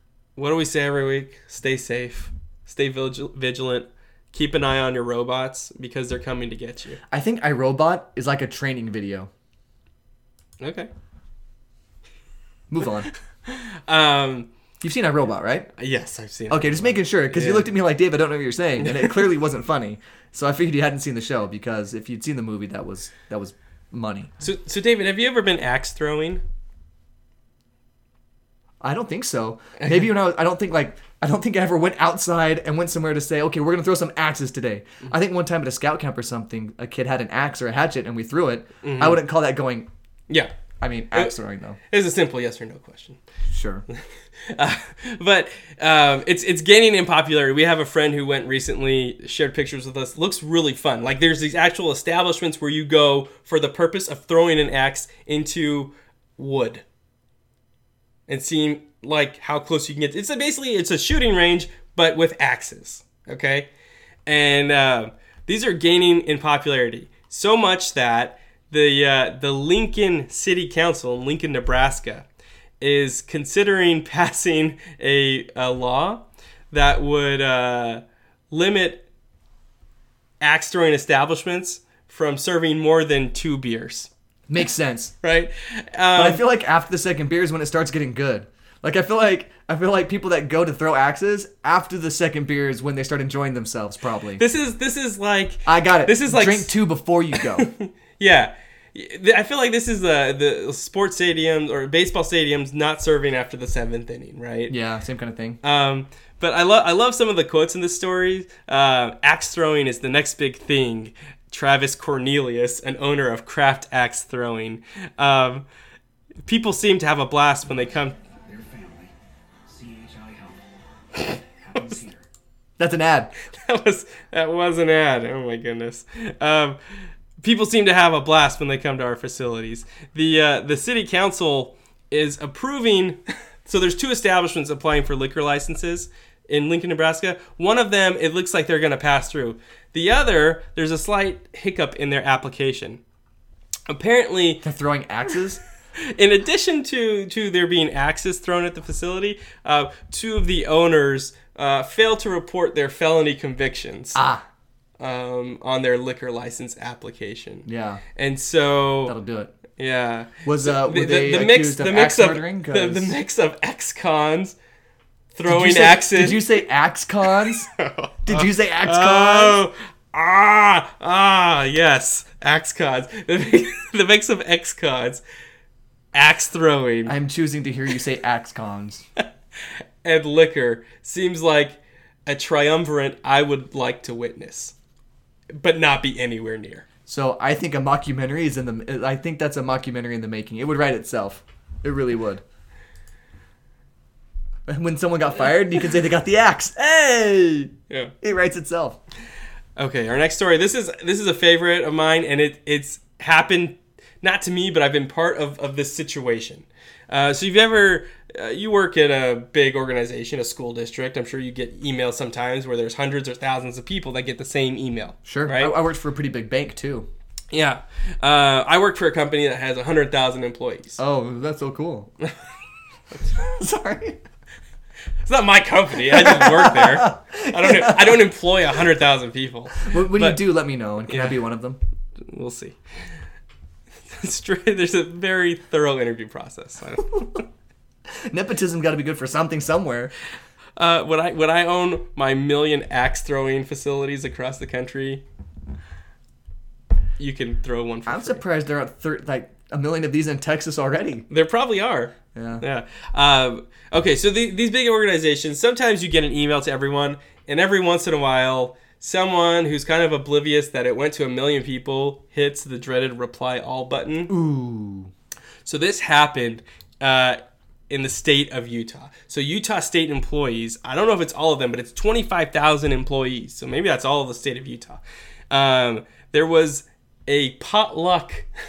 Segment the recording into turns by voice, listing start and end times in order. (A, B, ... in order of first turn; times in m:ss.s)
0:00.4-0:07.0 A
0:07.1-0:09.3 B
0:10.6-0:10.9 A
0:12.7-0:13.1 B
0:13.5-0:14.5 A
0:14.8-0:15.7 B
0:15.8-0:17.7 A
0:16.5-0:24.3 B
0:18.8-0:19.2 A
0:24.4-0:26.4 A
0:28.8-0:39.9 B
0:38.8-0:39.2 A
0:40.8-0:41.8 B
0:41.9-0:43.2 A
0:43.5-0:43.8 B
0:43.9-0:56.8 A
0:58.3-1:03.7 A
1:04.2-1:12.2 A
1:12.8-1:19.0 A
1:20.4-1:24.1 A
1:24.5-1:25.1 B
1:25.2-1:26.4 A
1:26.2-1:34.4 B
1:34.4-1:36.7 A
1:35.6-1:37.7 B
1:37.4-1:44.7 A
1:44.7-1:45.6 B
1:45.6-1:55.6 A
1:56.4-1:58.2 A
1:58.2-1:59.1 C
1:59.7-2:02.2 C
2:02.8-2:03.3 B
2:03.5-2:06.8 A
2:07.4-2:23.0 A
2:23.9-2:24.6 A
2:24.6-2:25.6 B
2:26.0-2:34.2 A
2:34.1-2:34.4 B
2:35.0-2:39.2 A
2:37.6-2:38.0 B
2:39.1-2:39.5 B
2:39.8-2:44.5 A
2:40.4-2:43.2 B
2:45.3-2:46.4 A
2:45.5-2:47.7 B
2:47.4-2:55.2 A
2:48.2-2:49.6 B
2:56.1-2:57.1 A
2:57.0-2:59.0 B
3:00.0-3:04.7 A
3:05.5-3:06.8 A
3:07.1-3:12.4 B
3:14.7-3:19.0 B
3:19.8-3:35.7 A
3:35.2-3:37.1 B
3:37.5-3:41.0 A
3:41.0-3:42.1 B
3:43.2-3:44.2 B
3:45.2-3:50.4 A
3:46.0-3:48.2 B
3:49.8-3:51.8 B
3:51.1-3:51.4 A
3:52.2-3:52.8 A
3:54.1-3:57.4 A
3:58.1-4:00.1 B
4:00.8-4:05.2 A
4:07.2-4:08.4 A
4:08.0-4:11.2 B
4:11.3-4:24.3 A
4:12.3-4:12.6 B
4:24.3-4:25.1 B
4:25.6-4:27.4 A
4:27.9-4:38.5 A